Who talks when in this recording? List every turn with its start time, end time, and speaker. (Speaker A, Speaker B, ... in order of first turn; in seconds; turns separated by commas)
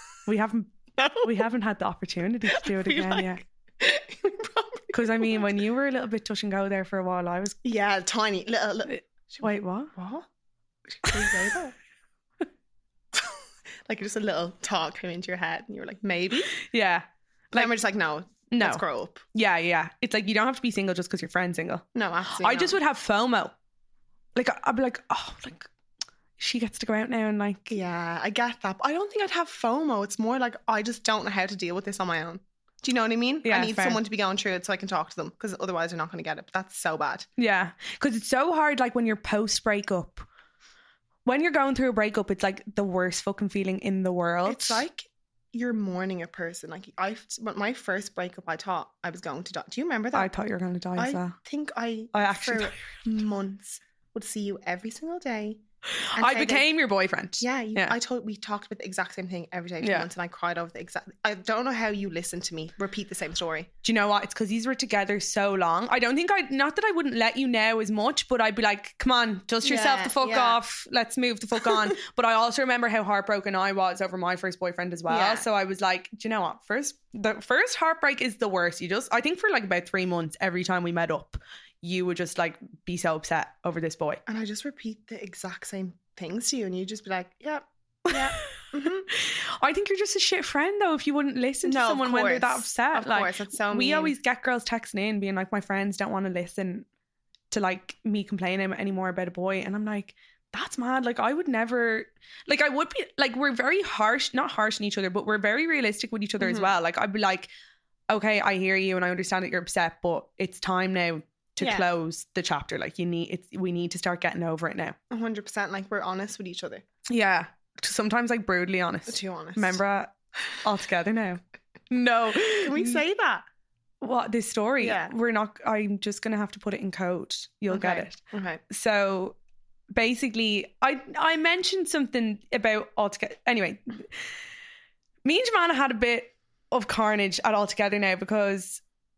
Speaker A: 0.2-3.4, Speaker B: 1.0-1.3, Speaker B: 2.5-5.4, Speaker A: 4.9-7.6, Speaker B: 7.6-10.3, Speaker A: 8.9-9.9, Speaker B: 10.9-11.7, Speaker B: 13.1-16.6, Speaker A: 16.6-17.7, Speaker B: 17.5-19.2, Speaker A: 18.5-18.8, Speaker A: 19.3-23.5, Speaker B: 21.9-22.8, Speaker A: 24.3-25.7, Speaker A: 26.4-27.7, Speaker B: 27.7-37.2, Speaker A: 33.4-34.0, Speaker A: 37.4-40.2, Speaker A: 41.2-44.8, Speaker B: 44.4-50.3, Speaker A: 50.1-51.4, Speaker B: 51.0-55.6, Speaker A: 52.1-53.0, Speaker A: 56.0-57.9, Speaker B: 56.1-56.7, Speaker B: 57.4-63.7, Speaker A: 59.8-60.1, Speaker A: 63.8-84.2, Speaker B: 69.6-70.6, Speaker B: 75.1-75.5, Speaker B: 84.2-89.1, Speaker A: 88.1-96.9, Speaker B: 91.6-94.1, Speaker A: 97.5-107.5, Speaker B: 106.4-106.7, Speaker A: 108.1-115.0, Speaker B: 111.6-111.9, Speaker B: 115.1-116.8, Speaker A: 117.1-123.0, Speaker B: 119.1-119.8, Speaker B: 122.6-123.4, Speaker A: 124.0-129.4, Speaker B: 124.8-125.1, Speaker B: 127.7-128.6, Speaker A: 129.9-134.1, Speaker A: 135.2-138.8